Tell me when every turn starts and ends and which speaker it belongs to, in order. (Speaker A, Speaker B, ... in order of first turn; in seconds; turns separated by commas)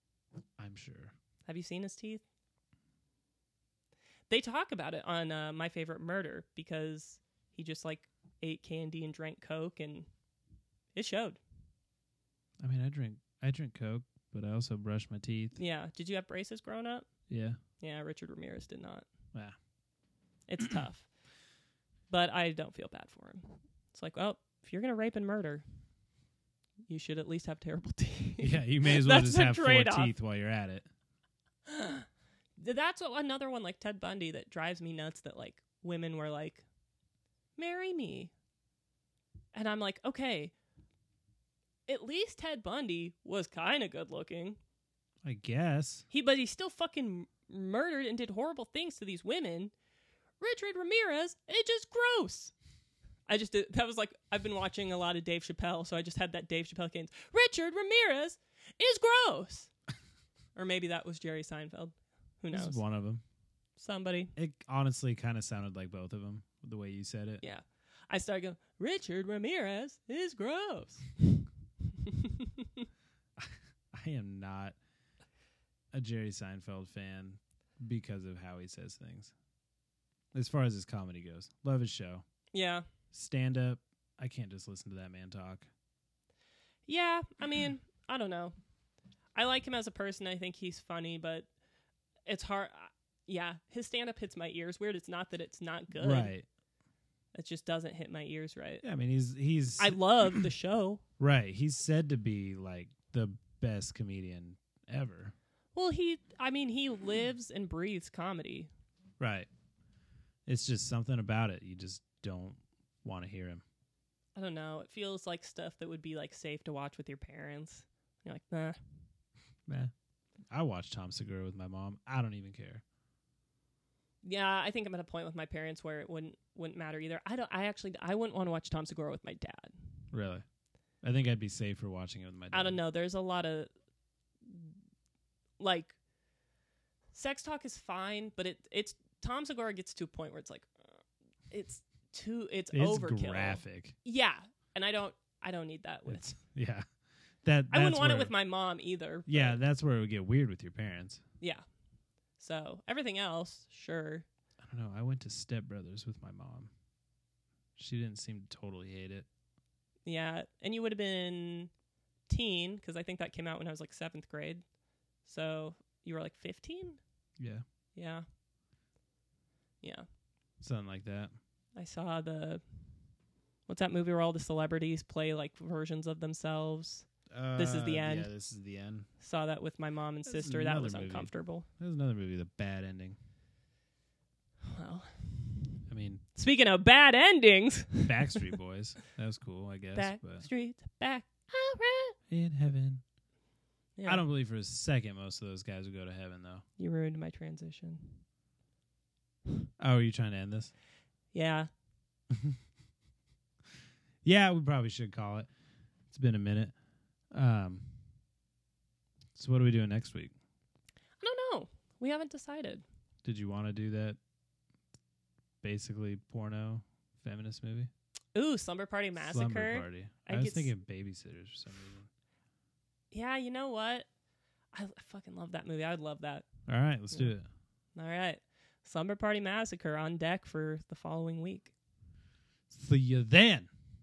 Speaker A: 0.6-1.1, Speaker B: 1.4-2.2, Speaker B: 4.3-10.1, Speaker B: 10.9-11.4, Speaker A: 12.6-15.6, Speaker B: 15.5-17.1, Speaker A: 17.3-17.6, Speaker B: 17.8-19.1, Speaker B: 20.5-21.1, Speaker B: 22.1-25.6, Speaker B: 26.9-30.1, Speaker A: 28.4-30.9, Speaker B: 31.7-32.0, Speaker B: 32.6-36.6, Speaker B: 37.6-38.3, Speaker B: 39.5-40.5, Speaker B: 41.9-44.6, Speaker A: 45.2-46.0, Speaker B: 46.1-49.7, Speaker B: 50.4-52.5, Speaker B: 53.3-59.7, Speaker B: 60.5-62.8, Speaker A: 62.5-63.2, Speaker B: 63.8-64.3, Speaker A: 64.3-67.4, Speaker B: 67.4-71.4, Speaker B: 72.0-72.8, Speaker A: 73.4-74.8, Speaker A: 75.9-79.3, Speaker A: 80.3-82.2, Speaker B: 82.5-82.8, Speaker A: 83.1-85.7, Speaker B: 86.9-88.5, Speaker B: 89.3-91.5, Speaker B: 92.2-96.3, Speaker A: 95.9-96.5, Speaker B: 97.3-98.8, Speaker A: 98.8-100.5, Speaker B: 99.8-101.0, Speaker A: 101.2-105.3, Speaker B: 105.8-108.7, Speaker A: 109.2-109.5, Speaker A: 110.5-113.6, Speaker B: 114.3-118.8, Speaker A: 119.7-119.9, Speaker A: 120.5-122.8, Speaker B: 124.2-129.9, Speaker A: 130.1-130.4, Speaker A: 131.0-132.8, Speaker B: 132.5-133.7, Speaker B: 134.4-134.7, Speaker B: 135.6-135.9, Speaker B: 137.1-140.7, Speaker B: 141.5-146.3, Speaker A: 142.7-143.9, Speaker A: 146.1-146.8, Speaker A: 147.4-148.3, Speaker B: 147.7-149.6, Speaker A: 149.3-151.2, Speaker B: 152.4-154.2, Speaker A: 154.6-156.7, Speaker A: 157.8-159.3, Speaker B: 160.1-161.7, Speaker B: 162.3-164.6, Speaker B: 165.2-167.0, Speaker A: 167.4-167.6, Speaker B: 167.9-168.2, Speaker A: 170.6-171.3, Speaker B: 171.8-172.6, Speaker B: 173.7-178.3, Speaker A: 177.3-179.1, Speaker B: 179.2-181.7, Speaker A: 180.2-183.2, Speaker B: 184.7-185.8, Speaker A: 185.9-186.2, Speaker B: 186.3-188.4, Speaker A: 188.1-190.5, Speaker B: 189.9-192.2, Speaker A: 192.3-193.0, Speaker B: 194.0-194.2, Speaker A: 194.1-196.6, Speaker B: 196.8-198.2, Speaker A: 199.8-200.7, Speaker B: 201.3-201.7, Speaker A: 202.3-202.6, Speaker A: 204.2-205.5, Speaker A: 206.1-206.7, Speaker A: 207.3-207.9, Speaker A: 209.3-210.3, Speaker B: 211.2-212.8, Speaker A: 213.2-214.2, Speaker A: 215.6-217.9, Speaker B: 218.3-220.7, Speaker A: 219.2-222.1, Speaker B: 223.1-224.1, Speaker B: 224.7-226.5, Speaker A: 226.7-227.5, Speaker B: 227.9-231.7, Speaker A: 232.7-233.7